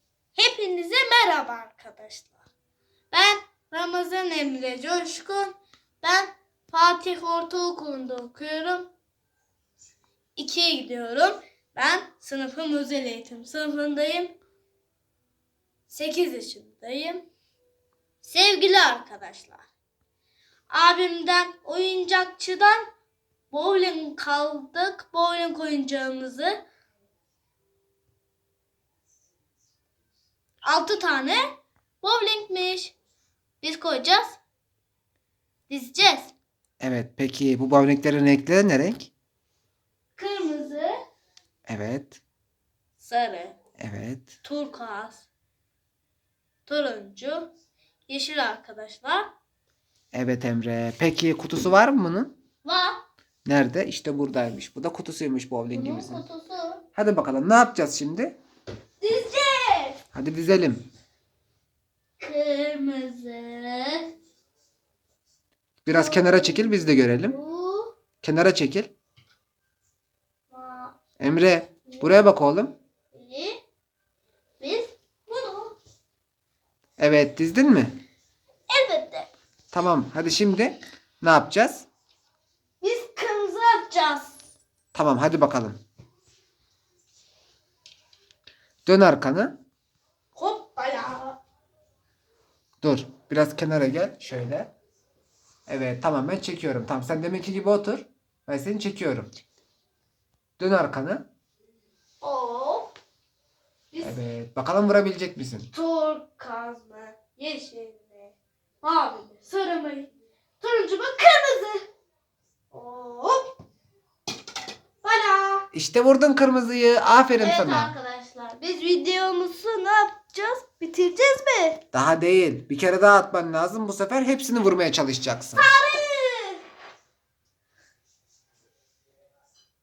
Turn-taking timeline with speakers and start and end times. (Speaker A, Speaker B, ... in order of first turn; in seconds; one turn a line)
Speaker A: 0.3-2.3
Speaker A: 3.1-8.9
Speaker A: 10.3-14.4
Speaker A: 15.9-17.3
Speaker A: 18.2-19.6
Speaker A: 20.7-22.9
Speaker A: 23.5-26.6
Speaker A: 30.6-32.9
Speaker A: 33.6-34.4
Speaker A: 35.7-36.3
Speaker B: 36.8-39.1
Speaker A: 40.1-41.0
Speaker B: 41.7-42.2
Speaker A: 43.0-43.6
Speaker B: 43.8-44.3
Speaker A: 44.4-45.2
Speaker A: 46.6-47.5
Speaker A: 48.1-49.3
Speaker B: 50.1-52.3
Speaker A: 52.6-53.0
Speaker B: 53.5-56.2
Speaker A: 55.7-56.8
Speaker B: 57.0-58.4
Speaker A: 59.0-60.0
Speaker B: 60.1-60.8
Speaker A: 62.2-64.1
Speaker B: 65.8-67.4
Speaker A: 65.9-67.9
Speaker B: 68.2-68.9
Speaker A: 70.5-70.9
Speaker B: 71.2-72.8
Speaker A: 73.1-73.6
Speaker A: 74.6-75.8
Speaker B: 77.0-77.9
Speaker A: 78.7-79.3
Speaker B: 79.7-81.8
Speaker A: 82.8-84.3
Speaker B: 84.9-85.8
Speaker B: 88.8-89.5
Speaker A: 90.3-91.4
Speaker B: 92.8-94.7
Speaker B: 95.7-99.3
Speaker B: 100.6-101.2
Speaker A: 102.2-102.9
Speaker A: 103.9-104.2
Speaker B: 104.0-105.7
Speaker A: 105.7-111.8
Speaker A: 112.7-113.5
Speaker A: 115.0-115.7
Speaker B: 115.7-117.9
Speaker A: 117.4-121.8
Speaker B: 121.9-125.7
Speaker A: 125.5-126.6